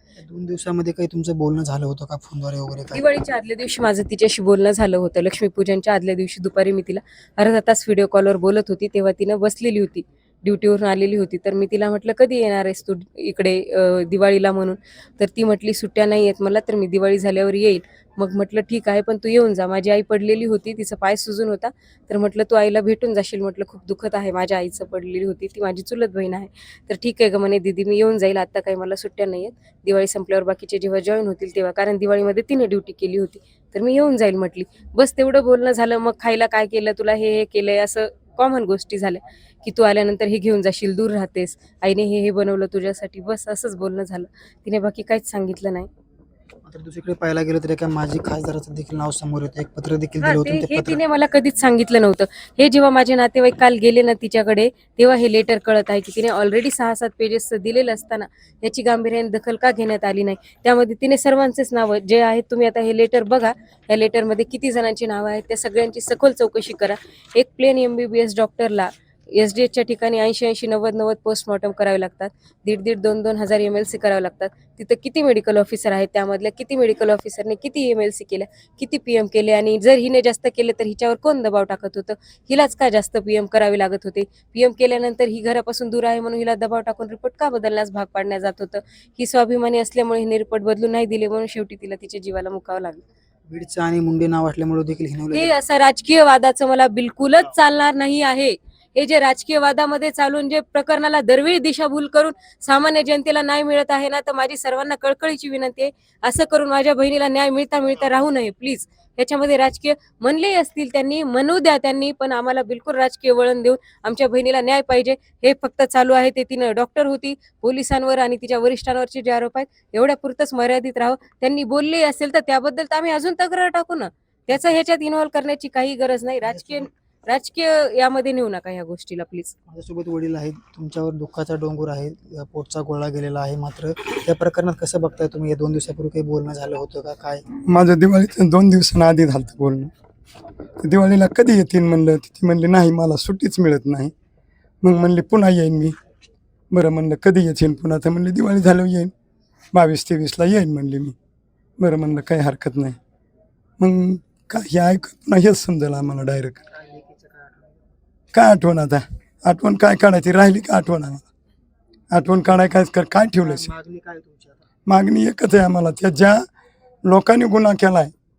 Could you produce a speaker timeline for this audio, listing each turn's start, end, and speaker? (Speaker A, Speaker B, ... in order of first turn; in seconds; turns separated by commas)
Speaker A: 0.2-3.0, Speaker B: 2.9-45.9, Speaker A: 46.6-51.0, Speaker B: 50.2-93.0, Speaker A: 93.5-95.5, Speaker B: 95.3-129.5, Speaker A: 126.5-126.9, Speaker A: 129.7-137.4, Speaker C: 137.5-139.9, Speaker C: 140.8-144.1, Speaker C: 144.8-145.9, Speaker C: 146.7-149.1, Speaker C: 149.7-151.1, Speaker C: 151.8-153.0, Speaker C: 153.8-156.6, Speaker A: 156.7-157.8, Speaker C: 158.3-161.2, Speaker C: 162.1-163.7, Speaker A: 163.4-164.7, Speaker C: 164.8-166.4, Speaker C: 167.1-168.1